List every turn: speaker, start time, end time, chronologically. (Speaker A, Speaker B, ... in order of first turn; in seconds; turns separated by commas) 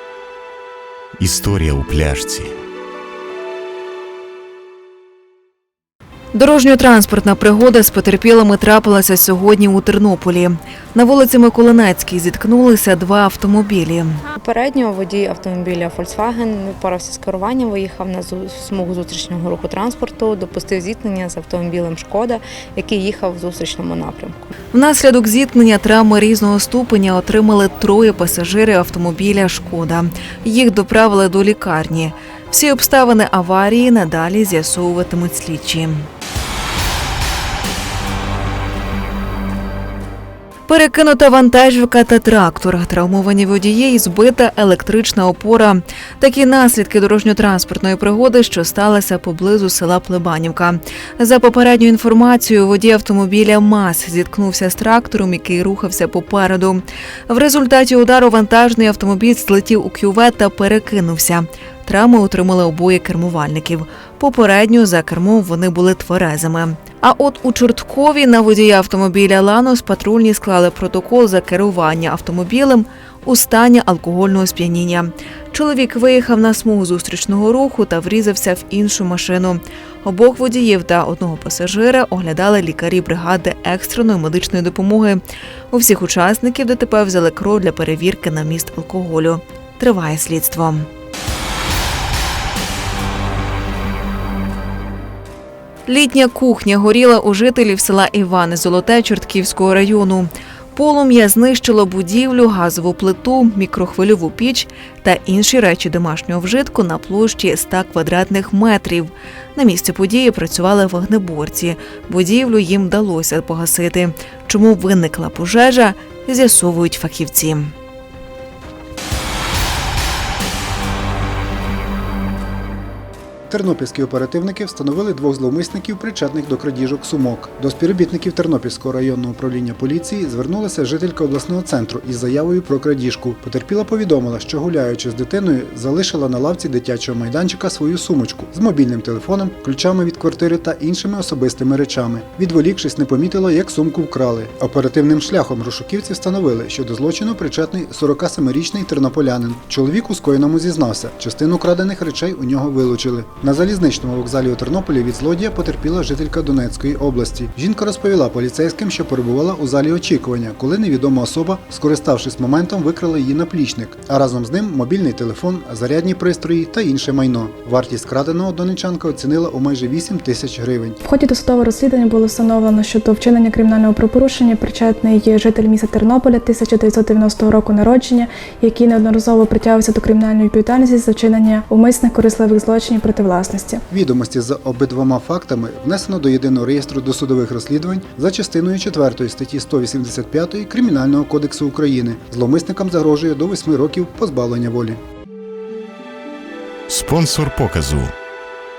Speaker A: 1.2-2.5, Speaker B: 6.3-14.2, Speaker C: 14.4-24.5, Speaker B: 24.7-36.1, Speaker B: 40.7-90.9, Speaker B: 95.8-117.7, Speaker D: 123.5-171.0, Speaker E: 171.0-183.8, Speaker D: 183.9-195.0, Speaker A: 196.9-198.1